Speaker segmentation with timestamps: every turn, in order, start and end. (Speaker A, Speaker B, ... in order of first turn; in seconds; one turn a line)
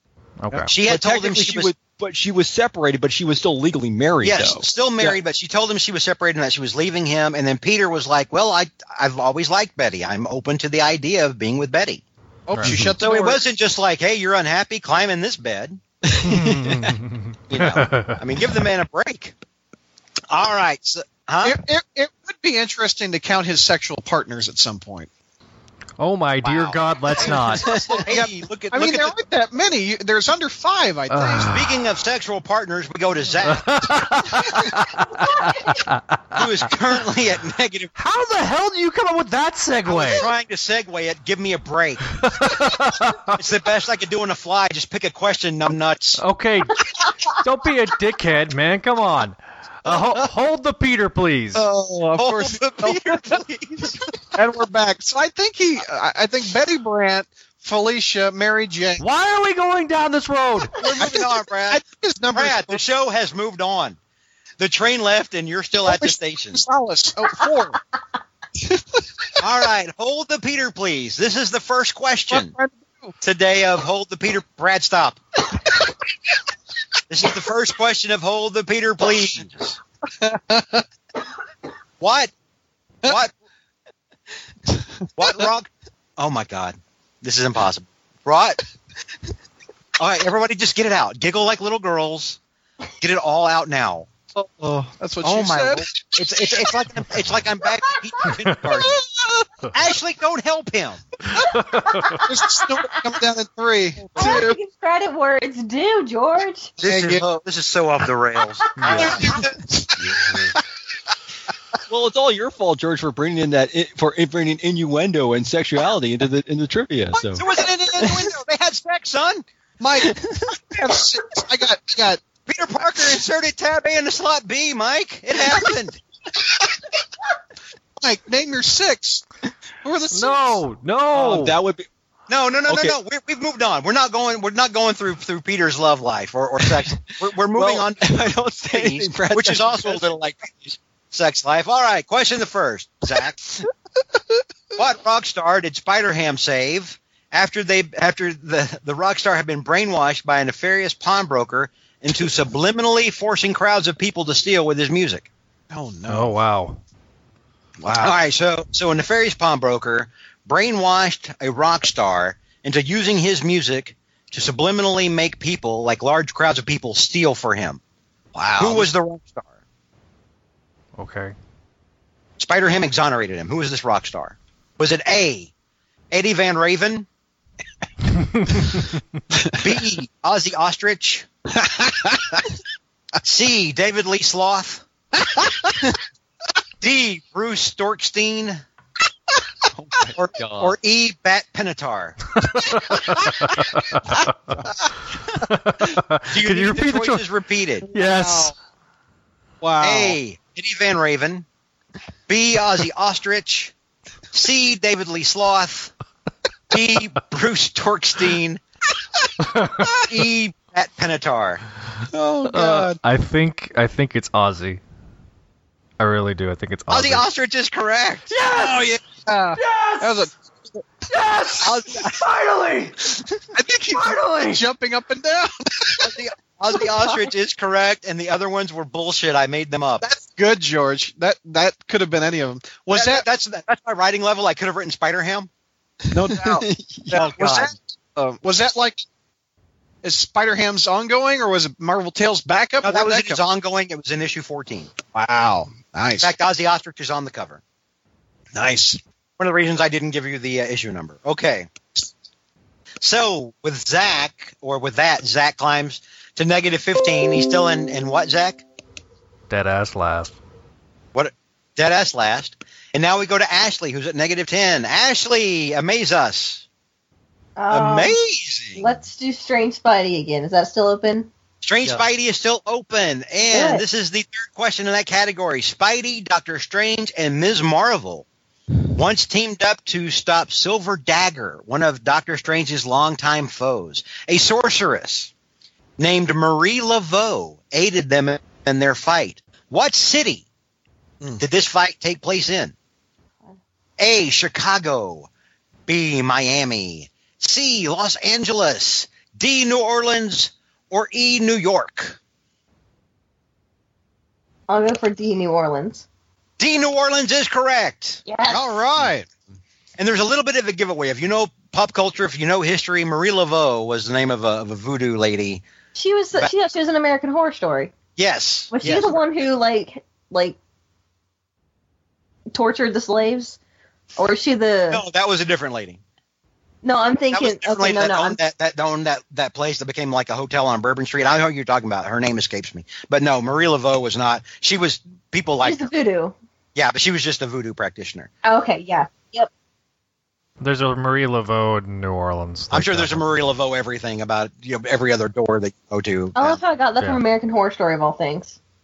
Speaker A: 0.4-0.7
Speaker B: 0.6-5.2
Speaker C: 0.7-1.7
Speaker C: 4.2-12.0
Speaker D: 12.5-13.4
Speaker A: 12.5-12.8
Speaker B: 12.7-13.0
Speaker C: 13.0-15.8
Speaker B: 16.1-16.9
Speaker A: 16.2-18.2
Speaker C: 17.5-19.4
Speaker C: 20.3-21.6
Speaker D: 21.4-25.1
Speaker A: 26.0-27.7
Speaker C: 26.4-29.1
Speaker D: 27.9-31.6
Speaker A: 31.1-31.6
Speaker C: 31.5-34.0
Speaker A: 33.5-36.4
Speaker C: 36.4-37.9
Speaker A: 38.0-40.3
Speaker C: 39.9-42.2
Speaker A: 42.2-43.4
Speaker C: 43.3-46.2
Speaker A: 46.2-51.6
Speaker D: 51.5-53.2
Speaker C: 52.2-54.1
Speaker D: 54.4-59.0
Speaker A: 59.0-60.8
Speaker D: 60.8-62.8
Speaker C: 60.8-61.8
Speaker C: 62.3-64.0
Speaker C: 64.6-66.6
Speaker D: 65.9-67.8
Speaker C: 69.4-72.5
Speaker D: 72.3-73.2
Speaker C: 73.2-75.2
Speaker C: 77.1-79.8
Speaker D: 80.2-80.8
Speaker C: 82.0-82.3
Speaker C: 83.0-83.3
Speaker C: 85.2-88.6
Speaker C: 90.0-92.4
Speaker C: 93.0-94.1
Speaker D: 94.3-97.0
Speaker C: 95.2-99.0
Speaker D: 98.7-99.5
Speaker C: 99.7-101.0
Speaker A: 101.4-102.2
Speaker D: 102.2-104.6
Speaker E: 104.2-106.8
Speaker D: 106.8-107.2
Speaker C: 106.8-109.5
Speaker D: 108.8-110.4
Speaker C: 110.0-110.5
Speaker B: 111.9-117.5
Speaker C: 117.3-119.4
Speaker D: 119.8-122.2
Speaker C: 122.5-126.0
Speaker D: 128.0-129.2
Speaker D: 129.8-130.6
Speaker A: 130.1-131.6
Speaker B: 131.1-131.9
Speaker C: 132.3-143.6
Speaker B: 132.7-133.0
Speaker B: 137.5-140.1
Speaker C: 144.8-155.3
Speaker D: 155.7-156.4
Speaker A: 156.1-156.8
Speaker D: 157.8-158.2
Speaker C: 158.0-167.8
Speaker D: 168.4-168.9
Speaker C: 168.6-169.5
Speaker A: 171.0-171.3
Speaker C: 172.4-175.5
Speaker C: 176.1-177.1
Speaker C: 179.6-181.3
Speaker D: 181.5-182.4
Speaker C: 183.2-184.8
Speaker D: 185.3-185.8
Speaker C: 186.8-188.6
Speaker B: 189.7-190.8
Speaker C: 190.2-192.3
Speaker A: 192.4-194.3
Speaker A: 195.4-197.2
Speaker C: 196.3-197.9
Speaker A: 197.9-198.5
Speaker D: 197.9-198.5
Speaker D: 199.6-200.2
Speaker C: 199.8-201.4
Speaker C: 202.3-203.7
Speaker C: 204.3-205.9
Speaker C: 206.7-208.6
Speaker D: 209.8-210.2
Speaker C: 210.1-211.6
Speaker D: 212.1-213.0
Speaker A: 212.5-214.8
Speaker A: 216.0-217.2
Speaker C: 216.9-218.3
Speaker A: 218.3-218.9
Speaker D: 218.5-220.8
Speaker A: 219.5-220.3
Speaker A: 221.1-223.0
Speaker C: 221.6-222.2
Speaker D: 223.5-226.1
Speaker A: 223.9-224.6
Speaker C: 226.0-230.1
Speaker E: 227.0-227.3
Speaker D: 230.0-233.3
Speaker C: 232.9-235.5
Speaker D: 236.1-239.0
Speaker B: 236.3-237.0
Speaker C: 237.1-237.7
Speaker D: 240.0-243.4
Speaker C: 242.8-244.9
Speaker D: 245.1-246.3
Speaker C: 246.2-247.6
Speaker D: 248.5-249.0
Speaker C: 249.4-251.7
Speaker C: 253.0-258.6
Speaker A: 259.5-260.4
Speaker C: 261.1-266.6
Speaker E: 267.6-268.2
Speaker C: 267.7-268.9
Speaker E: 268.8-271.3
Speaker C: 271.6-278.3
Speaker E: 273.5-273.9
Speaker C: 278.9-285.3
Speaker C: 286.0-290.5
Speaker C: 291.4-292.7
Speaker C: 294.0-295.3
Speaker C: 295.9-302.2
Speaker E: 304.7-306.1
Speaker C: 306.6-308.2
Speaker E: 308.3-308.7
Speaker D: 308.5-309.3
Speaker C: 310.0-315.6
Speaker E: 315.9-317.9
Speaker C: 318.2-319.2
Speaker E: 318.7-320.6
Speaker E: 322.5-323.6
Speaker E: 324.2-325.0
Speaker C: 324.9-326.0
Speaker E: 326.8-328.4
Speaker C: 327.3-335.9
Speaker E: 335.6-336.4
Speaker C: 336.8-338.3
Speaker E: 338.4-339.5
Speaker A: 340.6-343.2
Speaker C: 342.7-346.6
Speaker E: 346.4-348.6